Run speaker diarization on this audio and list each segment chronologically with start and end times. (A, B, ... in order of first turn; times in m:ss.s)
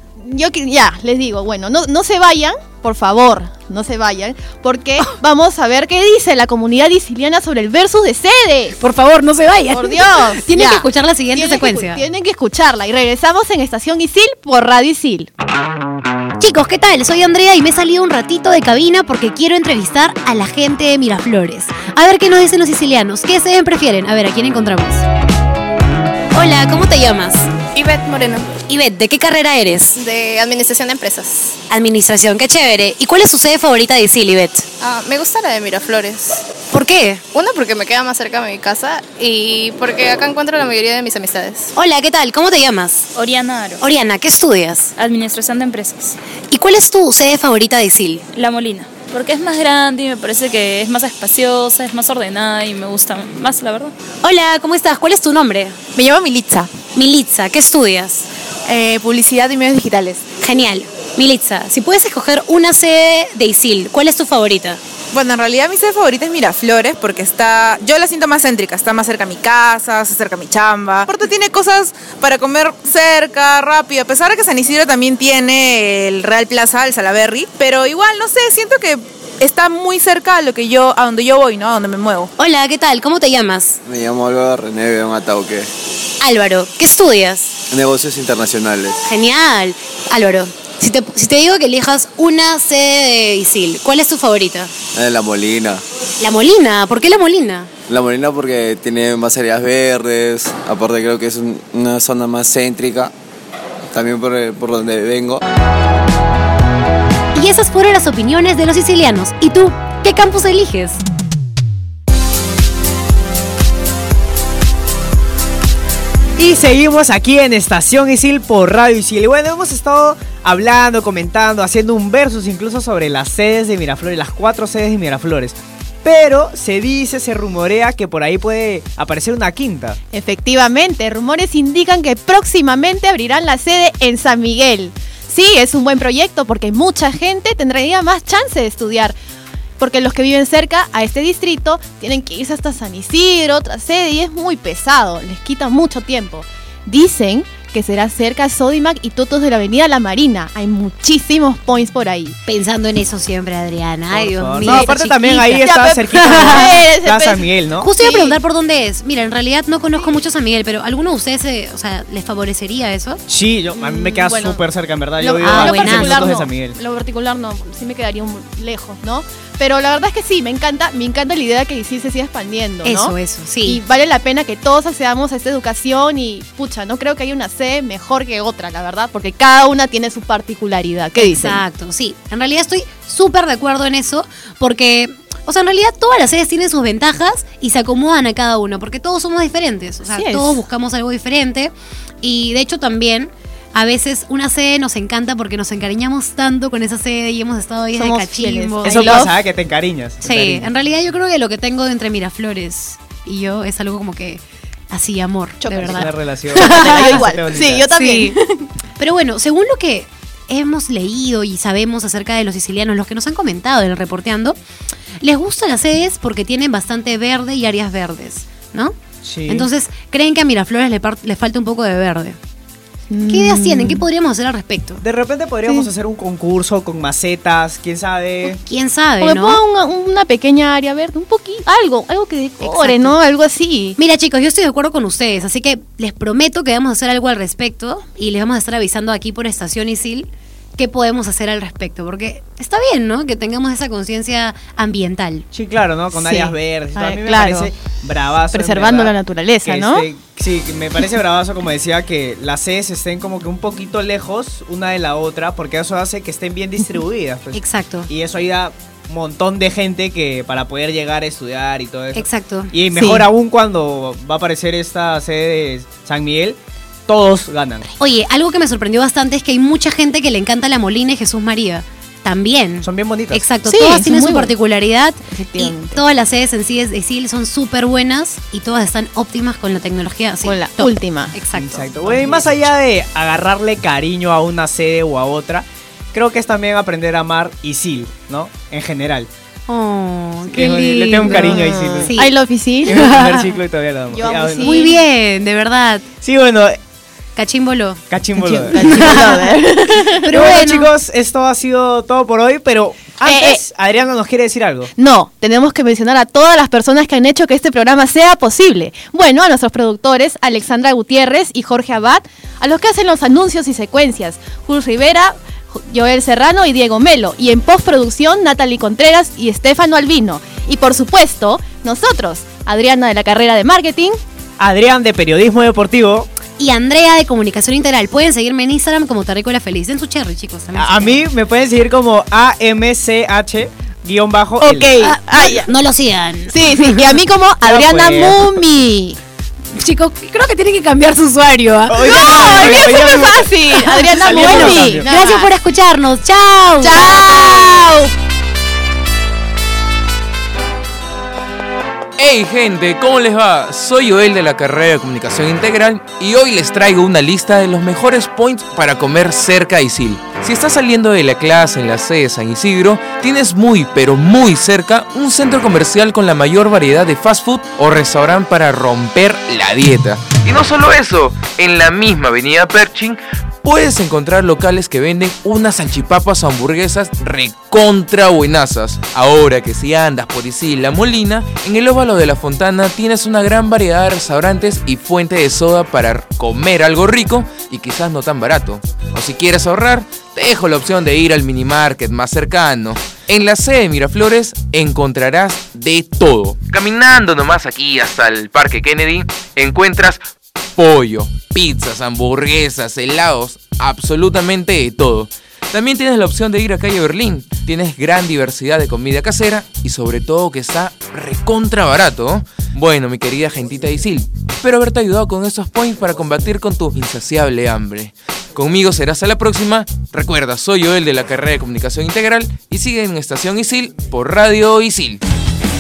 0:00.2-0:08.8 A
0:08.8-0:12.0 B
0:09.7-0:15.3 A
0:16.4-0:25.0 B
0:26.3-0:27.5 B
0:27.8-0:28.5 C
0:28.6-0:30.0 B
0:30.0-0:31.5 C
0:31.7-0:34.6 B
0:34.8-0:36.4 C
0:36.7-0:37.2 B
0:37.3-0:41.7 C
0:41.8-0:43.1 B
0:43.1-0:43.8 D
0:43.8-0:44.9 B
0:45.0-0:46.2 D
0:46.5-0:48.2 B
0:48.3-0:53.9 D
0:54.2-0:55.8 B
0:55.9-0:56.7 E
0:56.9-0:58.3 B
0:58.6-1:00.2 E
1:00.4-1:04.8 B
1:05.1-1:22.3 E
1:22.4-1:23.8 B
1:23.8-1:25.7 F
1:26.2-1:27.6 B
1:27.7-1:29.0 F
1:29.0-1:34.7 B
1:34.9-1:35.8 F
1:36.2-1:37.7 B
1:37.9-1:43.1 F
1:43.9-1:45.4 F
1:47.3-1:51.0 B
1:56.4-2:10.0 G
2:10.1-2:19.2 A
2:19.8-2:32.4 A
2:32.5-2:36.8 B
2:34.1-2:37.9 G
2:34.6-2:34.9 A
2:35.5-2:38.4 A
2:37.8-2:43.2 B
2:43.3-2:46.8 G
2:43.8-2:44.6 A
2:45.2-2:53.1 A
2:45.4-2:46.4 B
2:52.8-2:53.8 B
2:53.6-3:01.6 A
3:01.2-3:19.3 B
3:10.1-3:10.6 A
3:18.0-3:19.3 A
3:18.8-3:20.7 G
3:20.2-3:27.2 B
3:25.6-3:26.1 A
3:25.7-3:27.8 G
3:26.6-3:28.7 A
3:27.9-3:28.3 B
3:29.0-3:34.6 B
3:35.2-3:39.0 B
3:39.2-3:39.7 G
3:39.5-3:42.4 B
3:43.1-3:44.0 A
3:43.3-3:45.0 B
3:45.0-3:48.6 G
3:48.4-3:49.6 B
3:49.2-3:54.0 A
3:52.6-3:53.1 B
3:54.0-4:05.4 B
4:05.5-4:27.9 G
4:06.1-4:07.7 A
4:08.5-4:10.1 A
4:17.5-4:18.1 B
4:22.1-4:22.7 B
4:22.9-4:23.3 A
4:28.0-4:42.6 B
4:32.8-4:33.5 G
4:33.6-4:34.5 A
4:35.3-4:36.0 A
4:40.4-4:41.3 A
4:41.5-4:49.3 G
4:49.7-4:52.4 B
4:50.5-4:52.2 G
4:51.3-4:53.0 A
4:52.8-4:54.9 G
4:52.9-4:53.6 B
4:54.1-4:54.9 A
4:54.6-4:56.0 B
4:56.2-4:56.8 G
4:57.3-4:58.0 B
4:58.1-4:59.2 G
4:58.4-5:00.4 A
4:58.7-4:59.5 B
5:00.2-5:00.9 B
5:00.2-5:04.9 G
5:03.2-5:03.6 A
5:05.0-5:24.2 A
5:24.6-5:26.3 G
5:26.6-5:31.2 B
5:30.8-5:35.0 G
5:34.6-5:35.7 A
5:35.0-5:37.1 B
5:36.5-5:39.2 A
5:37.6-5:38.4 G
5:39.7-5:42.6 B
5:41.9-5:45.2 G
5:42.0-5:45.4 A
5:43.7-5:47.2 B
5:46.8-5:48.1 A
5:52.2-6:40.2 H
6:40.8-7:05.2 H